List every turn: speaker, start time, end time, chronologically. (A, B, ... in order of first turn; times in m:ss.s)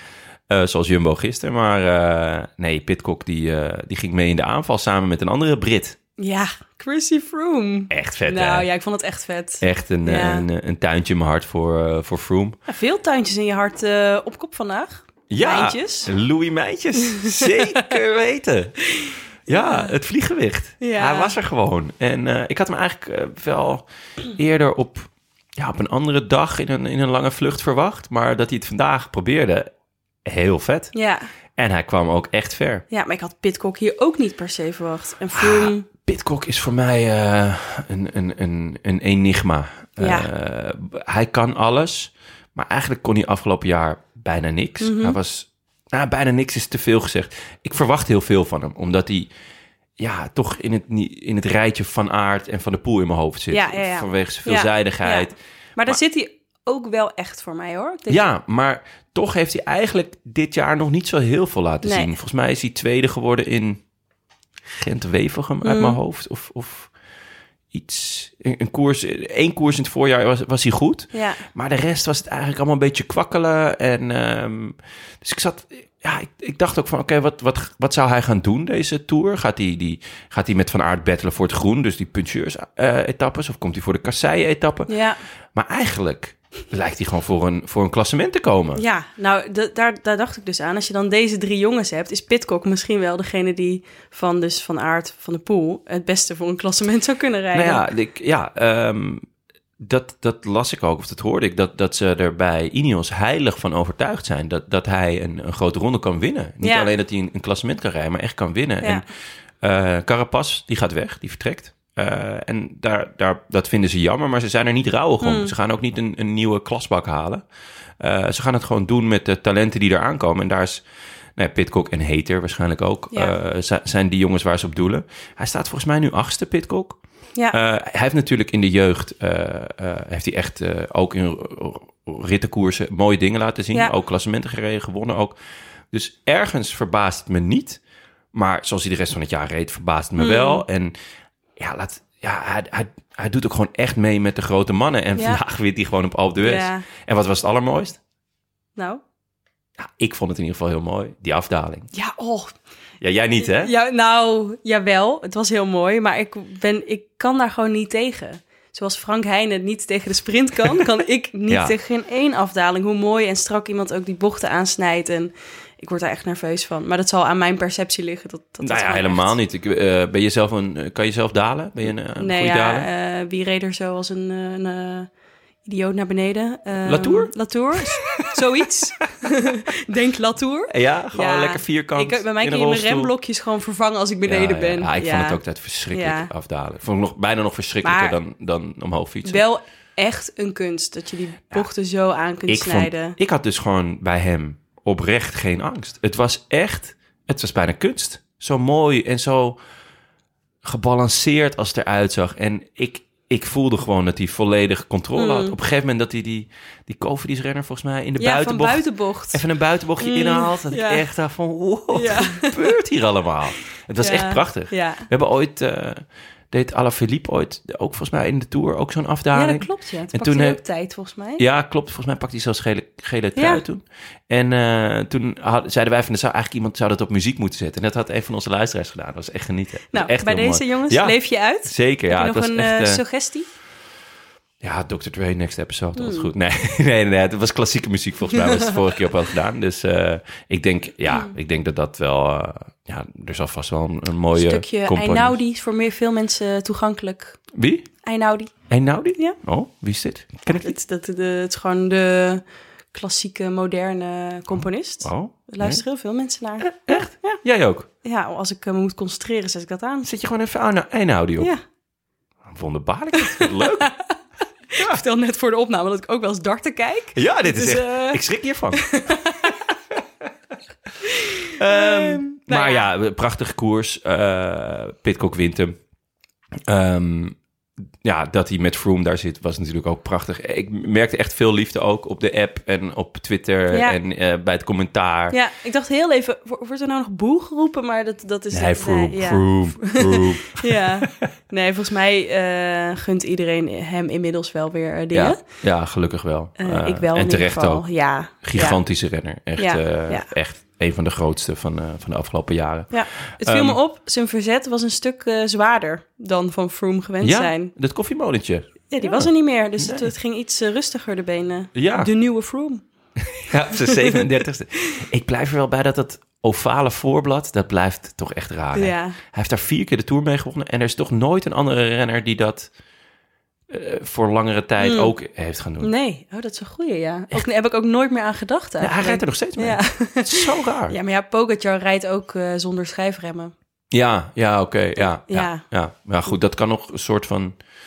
0:00.5-0:06.0 A
0:06.2-0:10.4 B
0:07.9-0:08.7 A
0:09.6-0:12.6 A
0:12.7-0:16.1 B
0:15.3-0:29.7 A
0:19.5-0:19.9 B
0:20.8-0:21.4 B
0:30.2-0:30.9 A
0:30.9-0:31.2 B
0:31.6-0:32.8 A
0:32.9-0:35.8 B
0:35.3-0:49.3 A
0:40.0-0:40.3 B
0:44.8-0:45.2 B
0:50.0-0:56.0 A
0:53.5-0:58.2 B
0:58.1-1:03.8 A
1:01.8-1:02.1 B
1:04.7-1:06.9 A
1:05.6-1:06.0 B
1:07.7-1:24.9 A
1:11.1-1:11.4 B
1:24.9-1:25.2 B
1:25.5-1:28.8 A
1:28.8-1:37.8 B
1:37.5-1:39.2 A
1:39.8-1:49.0 A
1:46.6-1:46.9 B
1:49.6-1:57.4 A
1:55.2-1:55.5 B
1:58.0-2:00.8 A
2:01.4-2:07.0 A
2:07.5-2:15.4 A
2:15.9-2:17.8 A
2:18.3-2:20.9 A
2:20.2-2:20.6 B
2:21.6-2:28.0 A
2:25.2-2:25.4 B
2:26.4-2:26.9 B
2:29.8-2:31.9 A
2:31.9-2:32.5 B
2:33.0-2:33.7 A
2:33.4-2:49.3 B
2:41.5-2:41.7 A
2:48.6-2:52.9 A
2:52.2-2:55.1 B
2:55.6-3:06.3 B
2:56.8-2:58.3 A
3:00.7-3:03.1 A
3:04.2-3:09.4 A
3:07.8-3:08.2 B
3:09.2-3:13.2 B
3:12.5-3:19.6 A
3:20.6-3:40.6 A
3:25.2-3:25.5 B
3:28.2-3:29.5 B
3:30.0-3:31.1 B
3:31.9-3:32.6 B
3:34.0-3:35.0 B
3:39.3-3:41.4 B
3:41.4-3:53.0 A
3:43.4-3:43.6 B
3:49.9-3:53.5 B
3:54.6-4:05.4 A
3:56.0-3:56.3 B
4:04.3-4:07.4 B
4:07.5-4:07.9 A
4:08.0-4:08.5 B
4:08.7-4:10.7 A
4:10.4-4:17.4 B
4:15.0-4:15.8 A
4:16.8-4:17.9 A
4:18.0-4:20.1 B
4:20.0-4:21.5 A
4:22.4-4:23.9 A
4:23.2-4:24.1 B
4:24.7-4:29.6 B
4:27.1-4:28.8 A
4:31.0-4:32.9 B
4:31.5-4:35.7 A
4:36.7-4:37.4 A
4:38.0-4:45.4 A
4:43.7-4:44.0 B
4:45.3-4:55.4 B
4:48.5-4:51.1 A
4:55.1-5:03.8 A
4:56.6-4:58.8 B
4:59.6-5:00.3 B
5:02.9-5:07.7 B
5:07.2-5:10.1 A
5:08.9-5:12.8 B
5:11.7-5:12.1 A
5:13.2-5:22.7 A
5:13.8-5:14.1 B
5:18.7-5:19.2 B
5:23.7-5:25.9 A
5:24.8-5:25.1 B
5:25.8-5:33.5 B
5:28.8-5:31.0 A
5:33.9-5:37.6 A
5:35.0-5:35.6 B